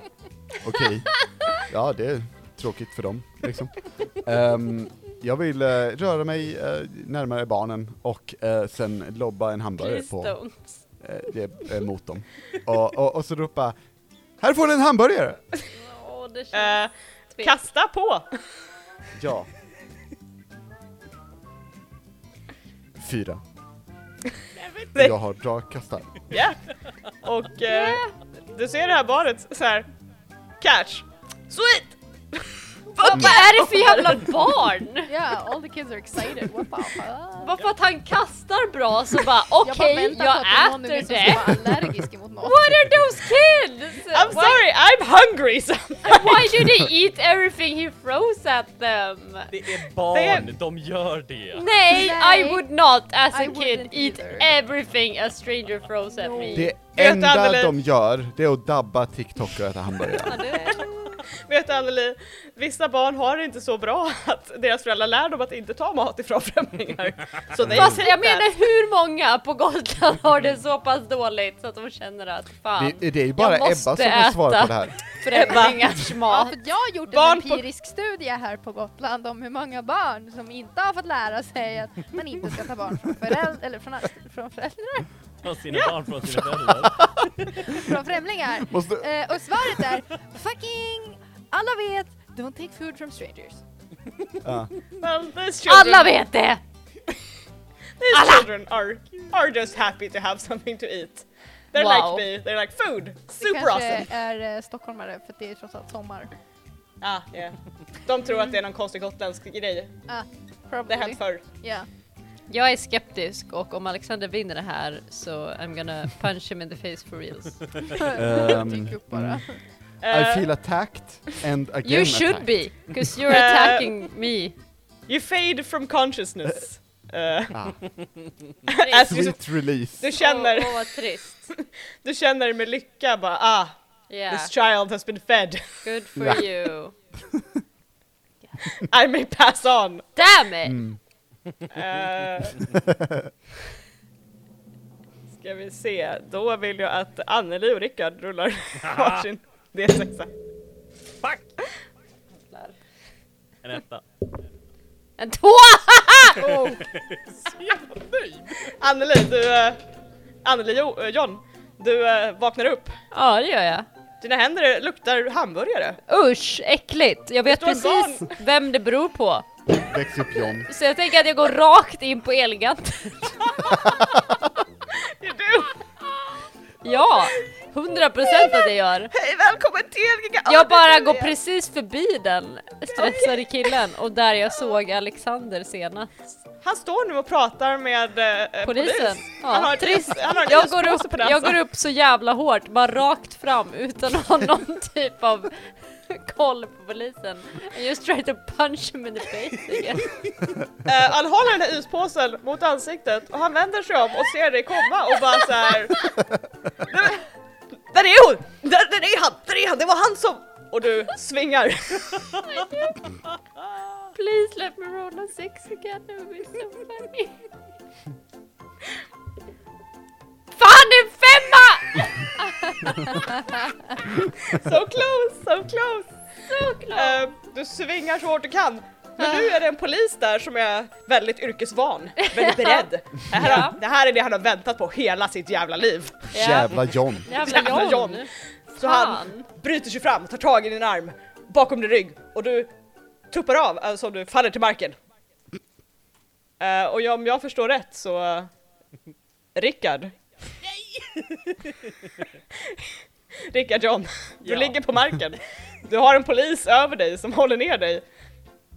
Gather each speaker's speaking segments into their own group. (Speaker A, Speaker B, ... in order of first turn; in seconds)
Speaker A: 0.6-10.4, 11.0-13.8, 14.4-15.4, 19.1-19.5, 23.0-23.4, 24.9-26.1, 56.5-60.4, 67.6-68.0, 72.8-75.0, 88.6-89.1, 94.4-94.7, 118.1-119.4, 120.0-122.8, 127.5-127.8, 129.0-130.1, 136.2-136.5, 140.6-141.0, 142.8-143.3, 169.8-170.7, 173.8-174.2, 236.3-237.4
Speaker B: 9.8-10.8, 15.7-17.6, 27.6-28.1, 33.0-35.1, 37.4-41.8, 42.4-44.6, 46.0-49.5, 51.5-56.7, 60.2-60.9, 67.7-76.6, 95.6-96.6, 98.1-98.5, 101.7-102.3, 112.5-118.0, 121.8-124.5, 128.7-129.2, 130.1-131.5, 134.1-134.5, 135.8-136.9, 140.2-140.8, 152.5-152.7, 155.2-156.5, 163.1-163.9, 166.1-169.4, 170.7-173.7, 176.8-179.1, 180.4-186.1, 188.6-200.2, 212.4-213.1, 214.1-217.5, 220.6-223.2, 226.5-227.2, 229.2-229.5, 232.4-233.8, 236.3-239.4
Speaker C: 16.5-18.3, 26.3-26.7, 27.2-29.9, 30.6-34.4, 44.1-46.6, 50.1-50.5, 56.9-57.7, 60.4-68.5, 75.3-75.9, 77.1-77.6, 95.0-96.1, 98.0-104.1, 107.0-109.9, 110.9-111.4, 120.0-120.5, 123.3-123.9, 125.1-127.6, 128.7-129.4, 130.0-131.0, 131.5-135.8, 138.7-140.1, 141.7-142.7, 145.4-150.3, 156.5-156.8, 158.7-159.8, 160.4-162.9, 164.2-166.0, 167.5-168.3, 173.7-174.0, 174.9-175.8, 178.3-181.3, 182.9-183.7, 186.6-191.6, 200.8-206.2, 206.8-207.2, 207.9-212.4, 224.2-226.1, 226.9-236.6, 237.3-242.7, 243.3-245.0, 246.6-248.5, 249.5-250.2, 252.7-252.9, 253.5-258.0
Speaker D: 35.0-37.5, 39.6-42.5, 51.8-52.7, 53.3-54.5, 56.1-56.7, 75.4-75.7, 76.2-85.1, 87.5-93.6, 103.4-106.3, 110.1-111.9, 117.8-119.6
Speaker E: 49.5-51.7, 85.4-87.7, 148.8-149.2, 151.2-151.5, 153.6-154.0, 156.4-158.7, 251.0-251.7, 254.4-254.8